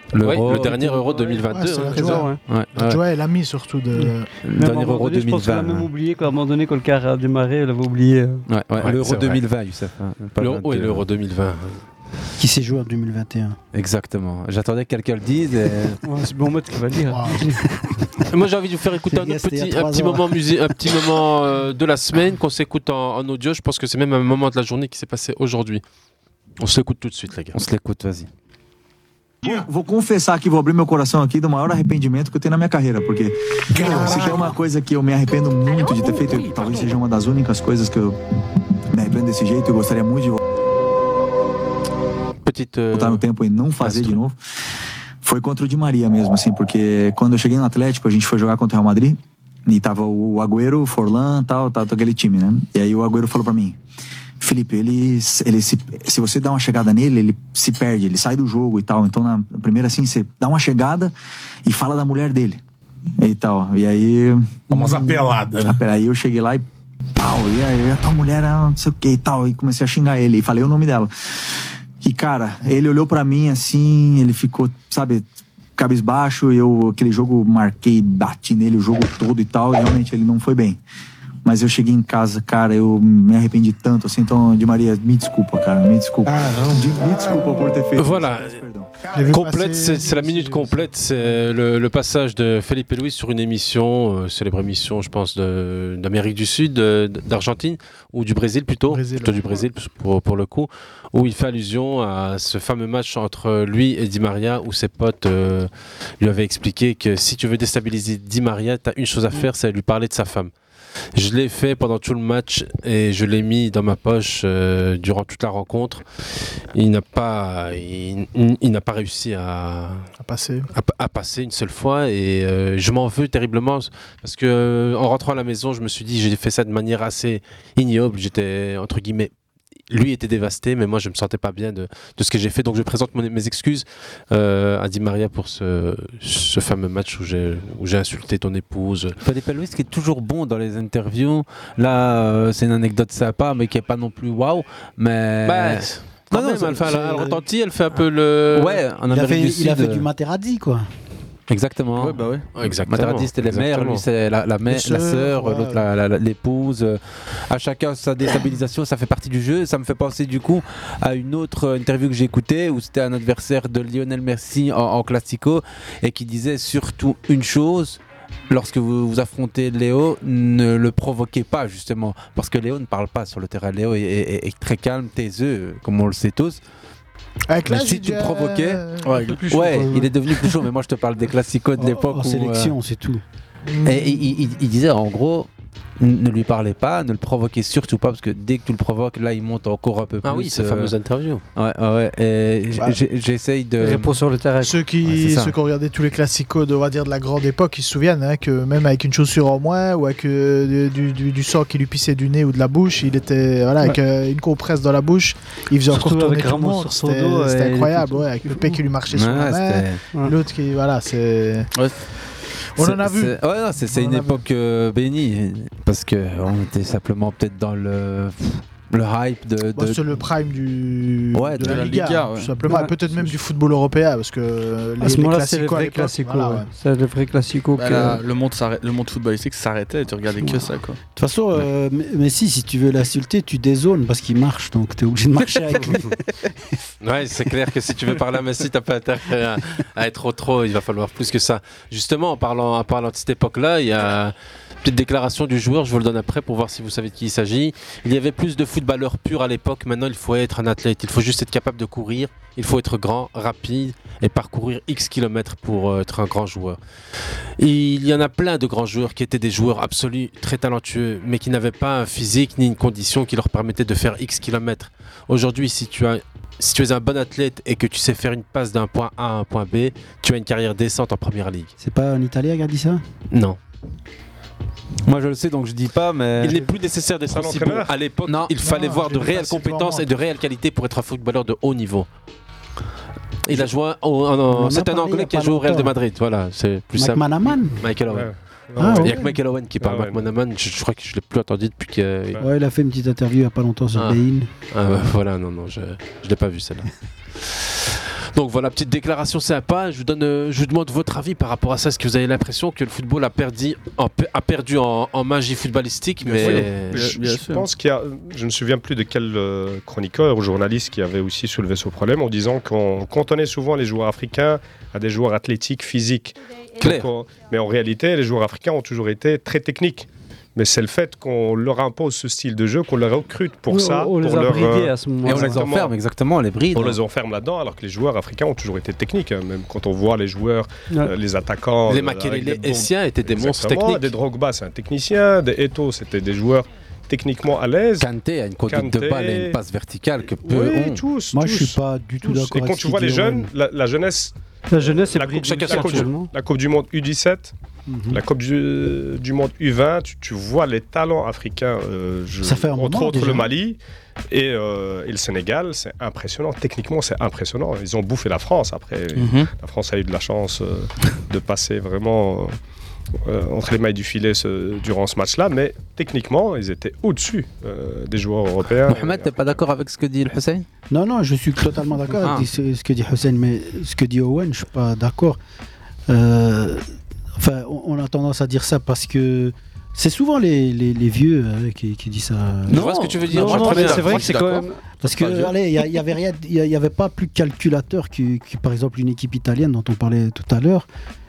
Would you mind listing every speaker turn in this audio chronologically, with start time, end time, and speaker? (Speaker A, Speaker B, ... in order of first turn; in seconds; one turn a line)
Speaker A: 0.1-1.0
Speaker B: 0.2-2.2
Speaker C: 0.9-2.4
Speaker D: 1.5-4.3
Speaker A: 2.1-3.0
Speaker C: 3.9-8.4
Speaker A: 4.4-5.9
Speaker A: 8.5-11.0
Speaker B: 8.8-9.4
Speaker B: 10.4-11.8
Speaker E: 12.4-13.6
Speaker A: 13.7-16.0
Speaker C: 16.0-17.7
Speaker D: 17.1-17.4
Speaker B: 18.3-25.8
Speaker E: 19.1-20.3
Speaker B: 26.6-27.6
Speaker A: 27.5-28.3
Speaker F: 29.4-38.2
Speaker F: 38.9-40.4
Speaker B: 42.4-43.2
Speaker F: 42.9-44.4
Speaker B: 43.8-44.2
Speaker F: 45.2-53.8
Speaker F: 54.4-61.1
Speaker F: 61.6-62.6
Speaker F: 63.2-66.6
Speaker F: 67.2-75.2
Speaker F: 75.8-80.8
Speaker F: 81.4-89.0
Speaker B: 88.0-88.6
Speaker D: 89.1-90.8
Speaker B: 89.3-110.5
Speaker D: 98.9-99.7
Speaker B: 111.1-116.0
Speaker B: 116.7-120.1
Speaker D: 120.2-120.7
Speaker B: 120.7-129.3
Speaker B: 129.9-139.2
Speaker A: 139.2-147.4
Speaker B: 145.4-148.8
Speaker A: 148.5-150.1
Speaker E: 149.1-150.9
Speaker A: 151.5-176.6
Speaker G: 152.0-152.4
Speaker B: 152.6-154.0
Speaker D: 154.7-155.8
Speaker D: 177.5-179.3
Speaker A: 177.6-178.8
Speaker G: 179.0-179.9
Speaker A: 179.5-182.7
Speaker E: 181.8-183.2
Speaker D: 183.7-184.3
Speaker A: 183.8-190.9
Speaker B: 190.2-191.4
Speaker A: 191.6-194.1
Speaker C: 193.8-194.8
Speaker D: 194.6-211.7
Speaker A: 195.0-195.6
Speaker C: 205.9-208.8
Speaker A: 209.1-210.0
Speaker D: 212.8-214.4
Speaker A: 212.8-220.0
Speaker D: 219.7-226.7
Speaker A: 221.3-221.9
Speaker G: 221.6-222.5
Speaker C: 222.6-223.3
Speaker C: 225.0-228.2
Speaker G: 227.7-231.0
Speaker C: 230.4-230.7
Speaker E: 231.2-236.2
Speaker B: 237.0-256.8
Speaker B: 257.6-271.7
Speaker E: 271.8-273.0
Speaker B: 273.3-273.6
Speaker A: 275.1-276.7
Speaker B: 276.4-282.1
Speaker H: 277.3-277.9
Speaker A: 278.3-279.2
Speaker D: 278.6-280.0
Speaker B: 283.4-288.3
Speaker E: 284.5-285.9
Speaker E: 286.9-287.8
Speaker H: 288.1-289.3
Speaker E: 288.8-289.2
Speaker B: 288.8-292.4
Speaker H: 289.8-290.3
Speaker E: 292.4-294.5
Speaker B: 293.9-307.1
Speaker G: 306.2-307.7
Speaker H: 306.4-325.9
Speaker C: 323.7-325.7
Speaker A: 325.2-327.0
Speaker H: 326.7-338.1
Speaker B: 331.9-334.1
Speaker A: 338.0-341.0
Speaker H: 338.7-339.6
Speaker H: 340.4-347.5
Speaker E: 341.3-343.5
Speaker C: 344.7-346.3
Speaker E: 347.9-348.2
Speaker H: 348.1-362.5
Speaker E: 352.4-353.5
Speaker G: 359.1-359.5
Speaker H: 363.2-369.4
Speaker A: 368.9-370.6
Speaker E: 370.9-375.4
Speaker A: 372.2-372.4
Speaker E: 376.1-376.8
Speaker E: 377.4-382.8
Speaker A: 382.7-384.2
Speaker B: 382.7-384.3
Speaker C: 383.3-384.8
Speaker E: 383.4-383.7
Speaker G: 383.4-385.5
Speaker E: 385.0-390.9